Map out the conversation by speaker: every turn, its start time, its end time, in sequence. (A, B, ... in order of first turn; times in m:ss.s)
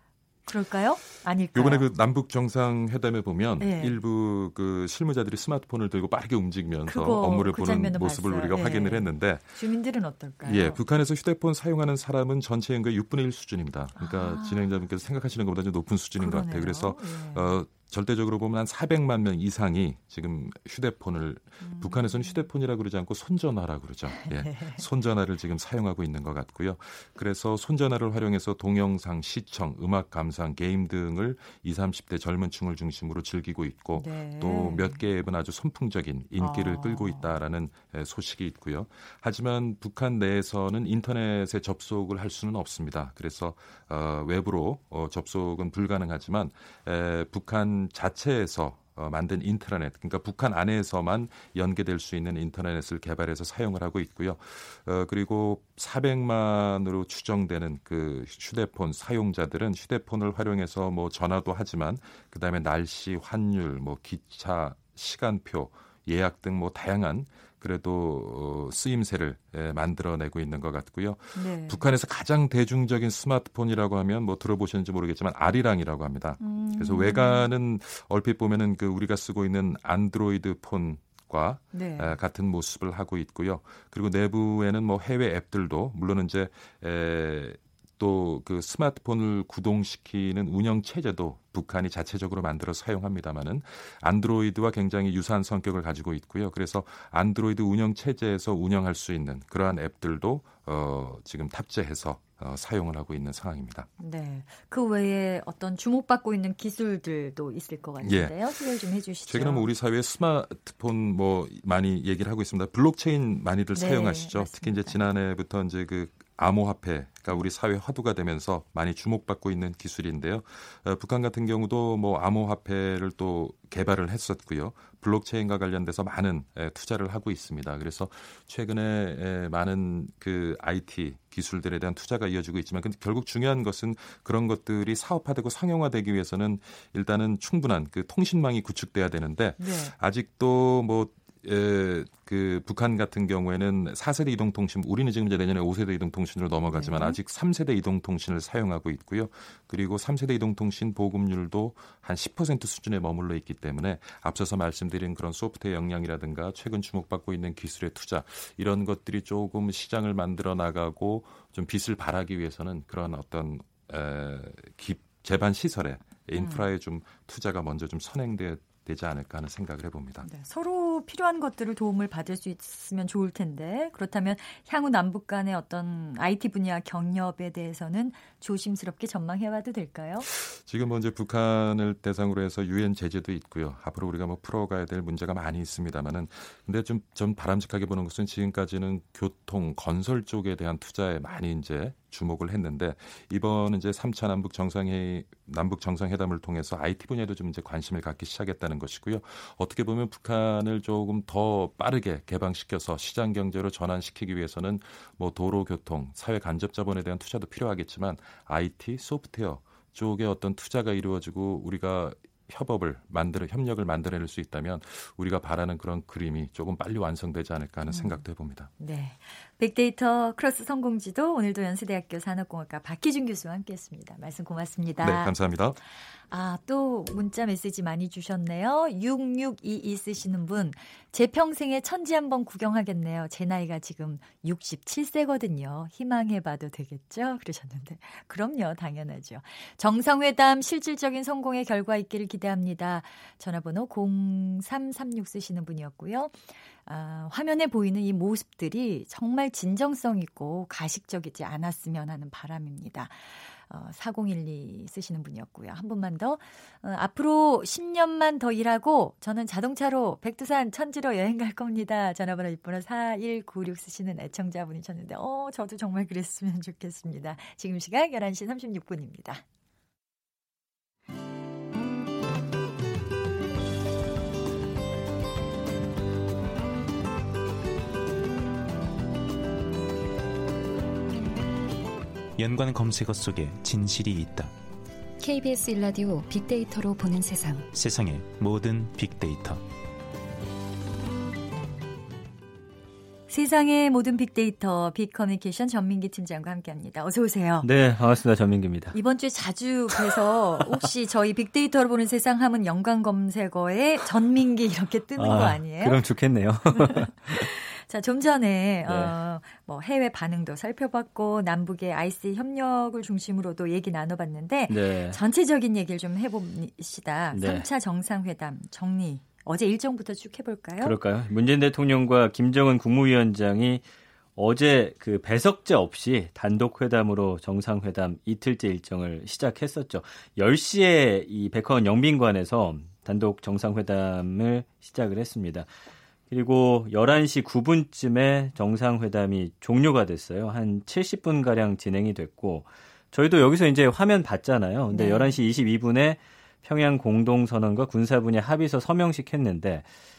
0:00.5-0:01.9 A
0:01.5-0:09.6 B
0:03.6-0:04.0 A
0:06.9-0:10.8 A
0:10.4-1:43.9 B
0:14.0-0:14.8 A
0:16.2-0:17.6 A
0:21.6-0:22.5 A
0:24.1-0:24.8 A
0:34.0-0:35.0 A
0:36.4-0:37.4 A
1:11.4-1:11.8 A
1:16.4-1:17.5 A
1:21.7-1:22.2 A
1:44.0-1:49.7 A
1:48.0-1:48.6 B
1:49.3-2:50.3 B
1:53.7-1:55.0 A
2:19.6-2:19.9 A
2:26.7-2:27.2 A
2:46.3-2:46.7 A
2:50.2-3:00.3 A
3:00.3-3:38.7 B
3:37.9-3:38.2 A
3:38.8-3:45.3 A
3:45.0-3:45.8 B
3:46.3-4:29.4 A
4:42.4-4:44.5 C
4:45.2-4:47.7 D
4:47.7-4:49.6 C
4:53.3-4:57.7 A
4:57.6-4:59.0 E
4:58.9-5:06.0 A
5:00.0-5:00.9 E
5:05.2-5:07.5 E
5:06.7-5:21.0 A
5:08.8-5:09.2 E
5:14.7-5:15.2 E
5:17.3-5:17.7 E
5:20.8-5:23.8 E
5:24.4-5:35.7 E
5:36.3-5:49.9 E
5:44.9-5:45.4 A